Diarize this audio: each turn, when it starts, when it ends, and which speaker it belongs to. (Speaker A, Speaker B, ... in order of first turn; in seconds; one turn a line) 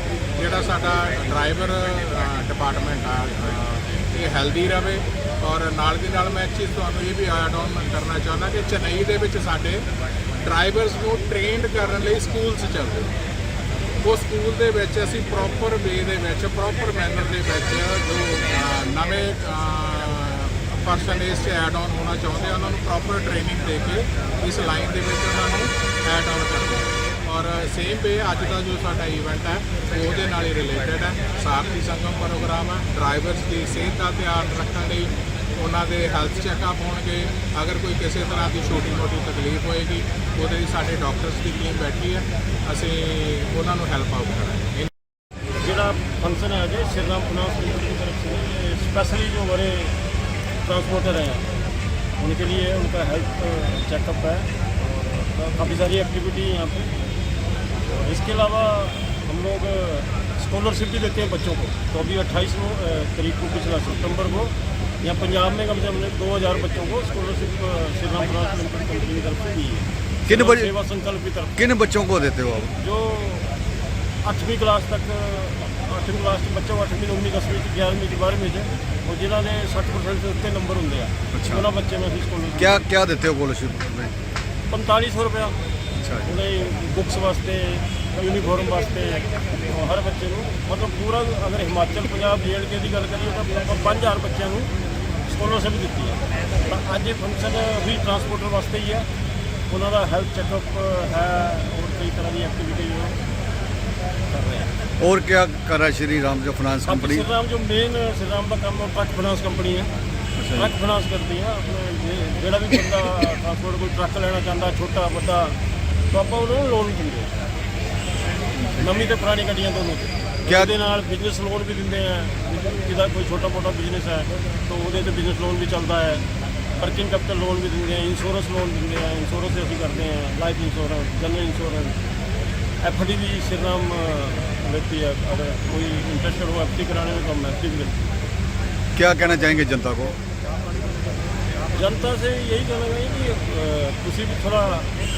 Speaker A: 0.4-9.8
Speaker A: 10.4-13.1
Speaker A: 14.0-44.9
Speaker B: 45.6-50.0
Speaker B: 50.6-51.5
Speaker B: 52.2-54.5
Speaker B: 55.5-56.9
Speaker B: 57.9-71.6
Speaker C: 70.2-70.7
Speaker C: 71.6-72.8
Speaker B: 72.8-73.5
Speaker B: 74.2-82.8
Speaker C: 81.3-81.7
Speaker C: 82.6-84.1
Speaker B: 84.7-85.6
Speaker C: 86.0-86.3
Speaker B: 86.2-94.7
Speaker B: 95.3-99.1
Speaker B: 99.7-103.2
Speaker B: 104.3-104.7
Speaker C: 105.0-107.3
Speaker B: 106.8-109.9
Speaker C: 110.3-110.7
Speaker B: 110.5-115.6
Speaker B: 116.1-117.3
Speaker B: 118.8-126.2
Speaker C: 120.5-120.7
Speaker B: 126.8-132.0
Speaker B: 132.8-138.0
Speaker C: 138.9-140.2
Speaker B: 141.7-144.9